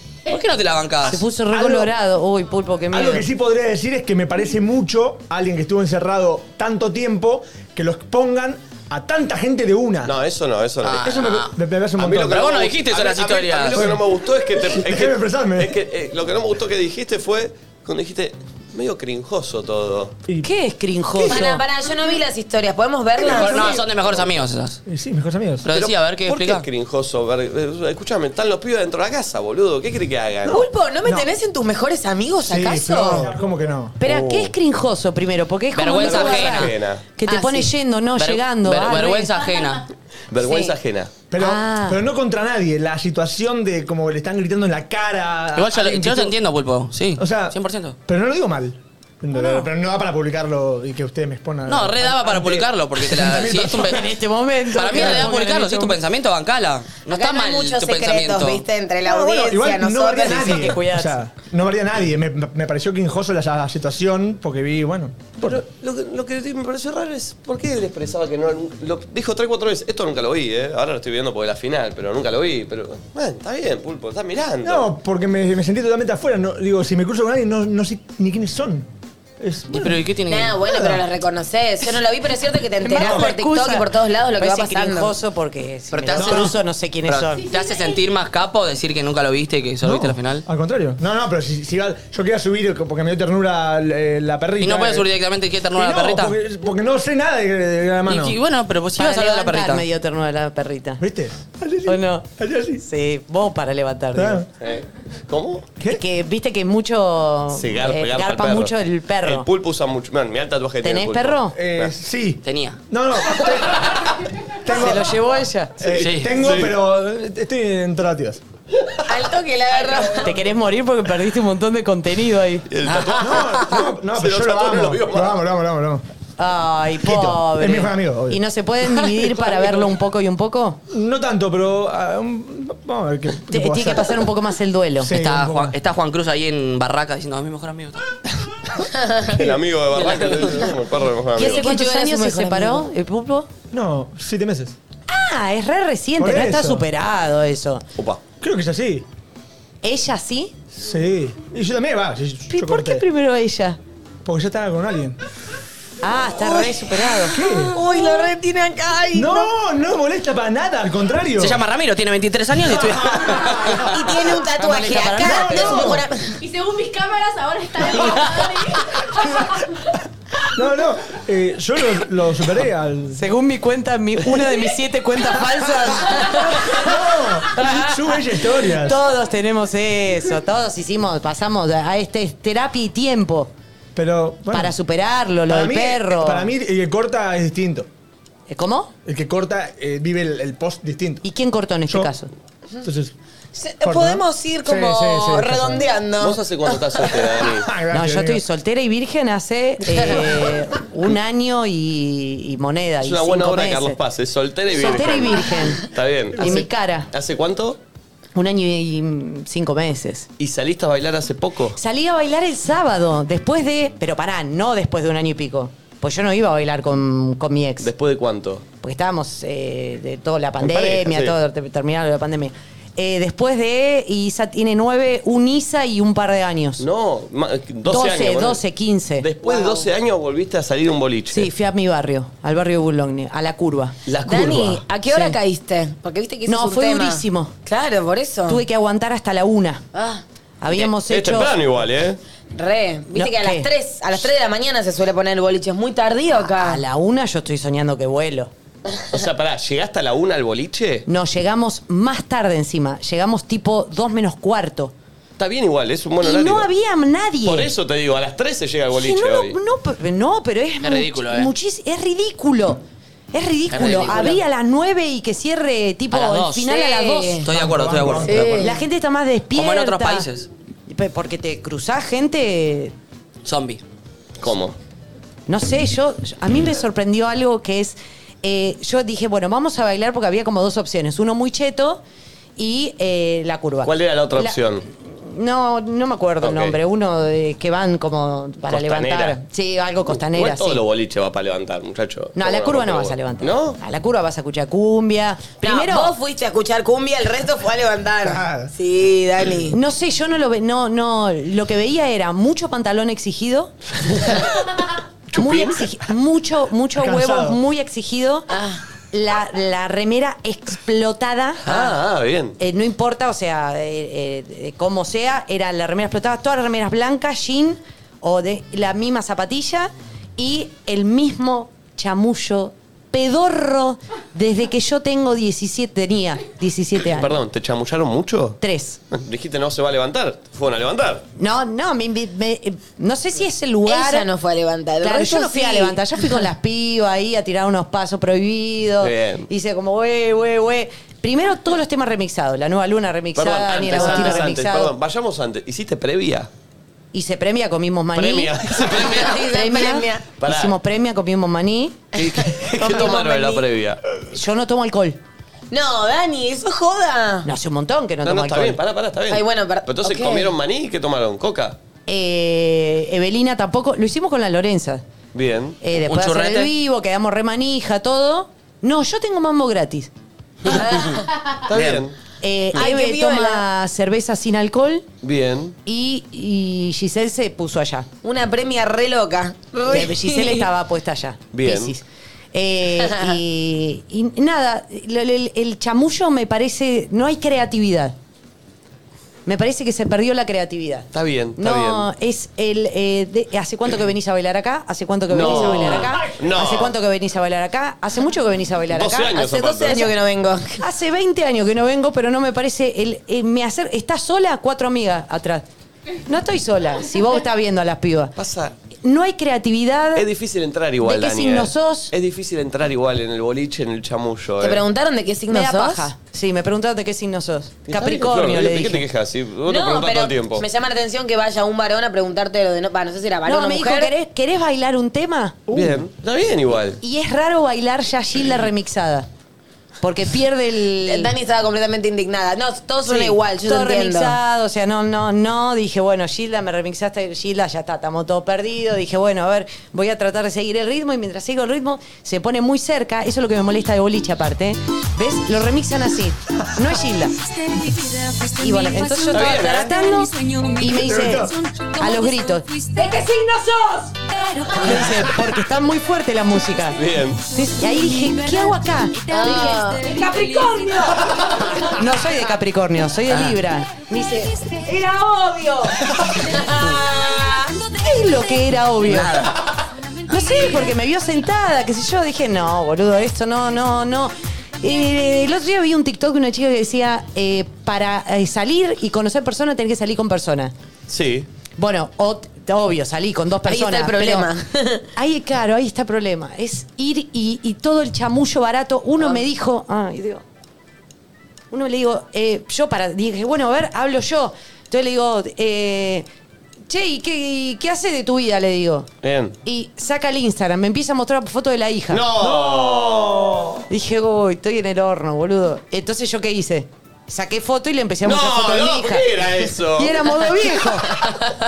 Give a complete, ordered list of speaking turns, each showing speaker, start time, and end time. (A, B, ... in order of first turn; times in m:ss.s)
0:00.3-0:01.2 A
0:01.0-0:03.3 B
0:01.5-0:01.9 C
0:02.9-0:10.1 C
0:10.0-0:20.2 D
0:10.8-0:11.5 A
0:11.4-0:12.4 C
0:12.2-0:14.0 A
0:13.7-0:14.0 C
0:14.6-0:15.8 C
0:20.4-0:21.6 B
0:21.1-0:21.6 C
0:21.3-0:23.8 E
0:23.2-0:24.8 A
0:24.9-0:25.7 C
0:25.6-0:26.7 A
0:25.7-0:30.6 D
0:30.4-0:31.3 C
0:30.5-0:33.3 E
0:32.5-0:34.0 C
0:34.0-0:39.3 B
0:34.0-0:34.5 D
0:35.7-0:36.8 A
0:36.0-0:37.0 D
0:37.3-0:37.7 E
0:38.2-0:39.8 A
0:39.3-0:39.8 F
0:40.3-0:41.2 D
0:40.4-0:40.7 E
0:41.3-0:46.4 C
0:41.4-0:42.0 B
0:45.5-0:48.0 A
0:47.2-0:47.6 C
0:48.1-0:54.1 C
0:51.7-0:54.1 A
0:53.8-0:56.0 B
0:54.7-0:58.6 A
0:54.9-0:55.2 C
0:57.1-1:00.7 E
0:59.0-1:05.6 C
1:00.3-1:01.2 B
1:05.4-1:14.9 D
1:14.6-1:18.9 C
1:19.4-1:20.0 C
1:19.7-1:20.6 A
1:20.3-1:25.1 E
1:20.6-1:21.0 C
1:22.8-1:27.4 B
1:25.9-1:26.6 A
1:26.2-1:26.4 C
1:27.1-1:30.4 A
1:27.3-1:28.0 F
1:29.8-1:35.1 C
1:34.6-1:36.4 A
1:35.8-1:38.4 C
1:38.1-1:39.9 A
1:39.0-1:41.0 B
1:41.0-1:42.8 C
1:41.9-1:42.3 B
1:42.8-1:44.4 B
1:44.2-1:44.5 C
1:44.6-1:45.7 D
1:45.8-1:49.5 B
1:47.5-1:48.7 D
1:49.2-1:51.9 D
1:50.8-1:51.6 B
1:51.6-1:54.0 C
1:52.4-1:52.8 A
1:54.6-1:55.2 C
1:54.7-1:55.9 B
1:55.8-1:58.4 C
1:55.9-1:56.8 D
1:55.9-1:56.4 A
1:59.0-2:00.4 E
2:00.2-2:02.7 B
2:02.7-2:05.4 D
2:02.8-2:03.4 A
2:03.2-2:06.0 C
2:06.4-2:10.8 B
2:07.0-2:08.4 C
2:10.9-2:14.3 C
2:13.5-2:15.1 B
2:15.0-2:15.8 C
2:15.1-2:18.0 A
2:19.0-2:19.3 E
2:19.3-2:21.8 D
2:19.9-2:20.7 A
2:21.4-2:22.9 E
2:21.4-2:23.5 B
2:23.7-2:24.8 C
2:25.1-2:27.8 B
2:26.2-2:26.8 C
2:28.0-2:28.2 D
2:28.4-2:29.0 C
2:29.8-2:30.5 B
2:30.8-2:33.0 C
2:32.5-2:33.8 B
2:34.2-2:35.2 C
2:36.0-2:37.4 B
2:36.4-2:36.8 C
2:37.3-2:37.8 C
2:37.7-2:39.5 E
2:39.1-2:41.6 C
2:41.4-2:45.8 A
2:42.8-2:43.8 C
2:43.7-2:46.3 E
2:45.2-2:46.0 C
2:46.4-2:50.0 F
2:50.5-2:53.2 C
2:53.1-2:56.2 B
2:55.4-2:56.2 C
2:56.3-2:56.7 F
2:56.7-2:59.0 C
2:58.8-3:03.5 B
3:04.0-3:04.8 C
3:04.5-3:06.5 B
3:05.5-3:07.9 C
3:08.5-3:08.9 B
3:09.1-3:11.2 C
3:11.2-3:12.3 B
3:12.8-3:13.1 C
3:13.5-3:17.4 E
3:13.8-3:15.9 C
3:16.2-3:17.7 D
3:17.6-3:18.4 C
3:17.9-3:24.0 B
3:19.8-3:20.3 E
3:23.0-3:27.8 D
3:24.7-3:27.1 B
3:28.4-3:30.3 B
3:30.4-3:31.8 D
3:31.8-3:37.9 B
3:37.8-3:38.6 D
3:38.8-3:46.8 B
3:40.6-3:41.4 D
3:46.8-3:48.6 D
3:47.9-3:49.3 B
3:49.2-3:51.5 D
3:49.4-3:49.9 E
3:51.3-3:54.0 B
3:54.1-3:54.8 D
3:54.2-3:58.6 E
3:55.1-3:55.4 B
3:56.5-3:57.5 B
3:58.5-3:59.8 B
3:59.9-4:00.2 E
4:00.6-4:01.5 B
4:00.7-4:02.2 D
4:02.6-4:06.8 E
4:03.1-4:03.7 B
4:06.5-4:08.5 B
4:08.9-4:09.2 E
4:09.1-4:11.1 D
4:11.1-4:14.9 B
4:15.4-4:16.7 D
4:16.2-4:17.7 B
4:17.5-4:19.6 D
4:18.9-4:22.8 B
4:20.8-4:21.5 A
4:23.3-4:27.4 B
4:23.7-4:24.4 A
4:26.1-4:26.8 A
4:26.7-4:27.5 E
4:27.4-4:28.6 A
4:27.5-4:28.7 C
4:28.2-4:28.8 E
4:28.6-4:30.3 B
4:29.5-4:30.5 A
4:30.9-4:32.9 B
4:33.4-4:33.8 A
4:34.4-4:34.8 D
4:35.5-4:42.0 B
4:42.6-4:50.8 B
4:43.8-4:44.8 D
4:46.4-4:46.8 D
4:48.7-4:49.4 D
4:50.1-4:53.8 D
4:52.4-4:56.1 B
4:55.6-4:59.8 E
4:58.2-4:58.7 C
4:59.7-5:04.3 B
5:05.3-5:05.8 D
5:05.4-5:08.5 B
5:07.0-5:07.6 C
5:08.5-5:08.8 E
5:09.1-5:11.9 B
5:11.6-5:12.6 D
5:12.6-5:27.4 B
5:27.1-5:28.6 D
5:28.6-5:29.0 B
5:29.1-5:31.2 D
5:31.4-5:34.3 B
5:33.9-5:36.2 E
5:35.0-5:44.9 B
5:39.0-5:39.5 D
5:43.4-5:46.5 D
5:43.9-5:44.4 E
5:47.1-5:48.5 B
5:48.2-5:49.3 D
5:48.9-5:49.4 A
5:49.0-5:50.3 E
5:49.3-5:52.0 B
5:50.4-5:50.8 D
5:52.2-5:53.6 E
5:52.2-5:54.0 D
5:54.3-5:55.2 B
5:55.7-5:57.5 E
5:57.4-5:58.8 B
5:58.2-6:01.8 D
5:59.3-6:00.5 E
6:02.1-6:05.0 B
6:05.3-6:05.8 D
6:05.8-6:10.1 B
6:06.0-6:06.7 A
6:10.7-6:11.1 A
6:10.7-6:11.2 E
6:11.7-6:12.2 D
6:11.7-6:12.0 A
6:12.4-6:15.0 B
6:12.7-6:13.6 E
6:15.2-6:15.8 D
6:15.9-6:18.1 B
6:18.2-6:20.7 E
6:19.9-6:28.2 B
6:21.5-6:22.0 D
6:23.0-6:23.3 E
6:29.5-6:39.4 B
6:31.1-6:32.1 D
6:35.3-6:37.0 D
6:38.9-6:40.1 D
6:39.4-6:40.8 E
6:40.8-6:45.6 B
6:46.3-6:48.4 B
6:48.4-6:48.7 D
6:49.0-6:50.2 B
6:50.2-6:54.8 D
6:51.0-6:52.1 B
6:54.6-6:56.1 E
6:55.5-6:59.1 B
6:57.9-7:00.7 D
6:59.7-7:04.1 E
7:03.5-7:05.7 B
7:05.7-7:06.0 C
7:05.7-7:07.0 D
7:07.0-7:09.3 B
7:10.0-7:11.3 B
7:11.0-7:14.4 E
7:13.1-7:27.4 B
7:28.6-7:34.2 B
7:29.3-7:30.0 D
7:31.0-7:31.5 C
7:34.7-7:49.5 B
7:37.0-7:37.4 D
7:39.3-7:40.1 E
7:49.0-7:49.5 A
7:50.3-8:00.7 B
7:50.3-7:50.6 A
8:01.1-8:01.5 D
8:01.8-8:04.5 B
8:03.7-8:05.0 E
8:05.2-8:10.4 B
8:11.7-8:16.2 B
8:16.9-8:19.1 B
8:19.2-8:19.6 D
8:19.6-8:22.2 B
8:22.1-8:23.4 D
8:22.4-8:23.8 C
8:23.9-8:29.3 B
8:28.2-8:30.5 D
8:30.0-8:31.2 B